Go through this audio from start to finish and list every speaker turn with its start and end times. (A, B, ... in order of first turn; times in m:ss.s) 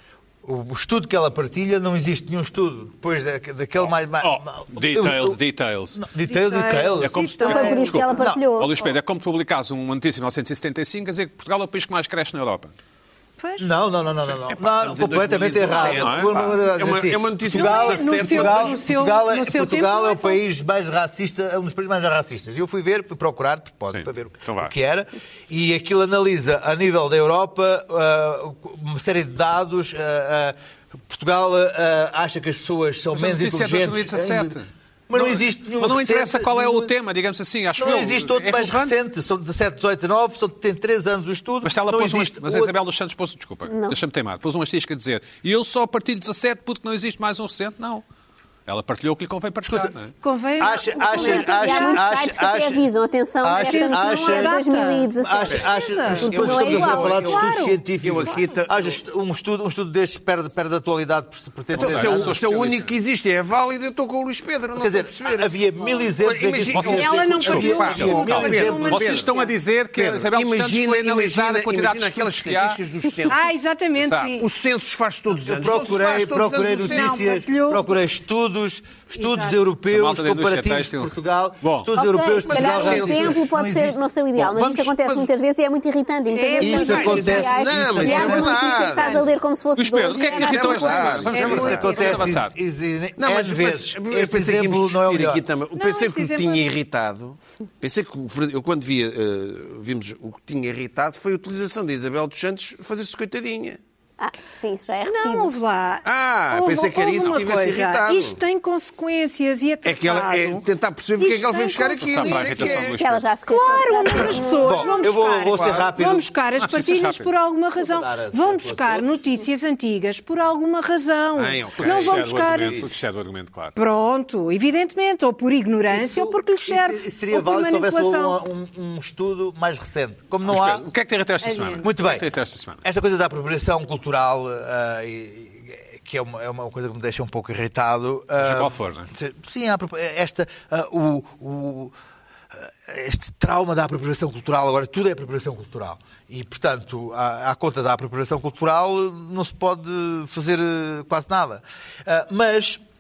0:00.4-0:05.4 A
0:04.2-0:06.0 B
0:06.0-0:07.2 A
0:06.3-0:08.2 C
0:07.0-0:12.7 B
0:07.4-0:08.8 D
0:08.1-0:08.4 A
0:13.4-0:13.7 C
0:13.6-0:30.6 A
0:14.5-0:18.8 E
0:15.9-0:16.5 B
0:17.5-0:20.4 C
0:23.9-0:24.7 B
0:31.1-0:34.6 A
0:33.1-0:39.0 B
0:35.1-0:36.9 A
0:37.8-0:42.8 A
0:41.6-0:48.0 B
0:43.7-0:44.0 D
0:48.7-0:50.1 B
0:50.2-0:52.1 C
0:50.6-0:52.9 A
0:51.1-0:57.3 D
0:53.4-1:02.4 A
0:53.6-0:58.5 C
0:56.2-0:59.0 E
1:01.7-1:02.9 B
1:01.7-1:09.4 E
1:04.8-1:09.0 A
1:06.7-1:13.3 B
1:06.9-1:09.5 C
1:09.9-1:13.4 E
1:13.3-1:14.5 C
1:14.0-1:14.3 B
1:14.4-1:17.2 E
1:15.5-1:24.0 A
1:16.7-1:17.9 C
1:19.2-1:19.6 C
1:19.9-1:21.9 B
1:22.0-1:31.3 D
1:22.4-1:23.4 E
1:24.5-1:24.9 B
1:24.6-1:25.2 E
1:26.3-1:27.5 C
1:26.6-1:28.6 A
1:26.8-1:29.2 E
1:28.0-1:29.3 C
1:29.8-1:32.5 B
1:30.3-1:32.0 E
1:31.3-1:35.4 A
1:31.3-1:32.3 C
1:33.2-1:43.8 E
1:35.8-1:36.7 C
1:44.2-1:45.5 D
1:45.1-1:50.6 C
1:46.0-1:48.4 E
1:49.8-1:53.0 E
1:51.2-1:52.8 C
1:52.0-1:53.2 B
1:53.0-1:54.9 D
1:53.5-2:02.8 C
1:54.6-1:56.3 A
1:55.6-1:55.8 E
1:56.6-1:57.3 B
1:57.8-1:59.2 A
2:01.4-2:02.9 E
2:01.8-2:03.7 B
2:03.8-2:08.4 C
2:05.9-2:10.9 A
2:10.4-2:12.8 B
2:11.4-2:11.9 C
2:11.8-2:12.3 A
2:12.8-2:22.0 A
2:18.4-2:19.1 B
2:22.5-2:32.8 A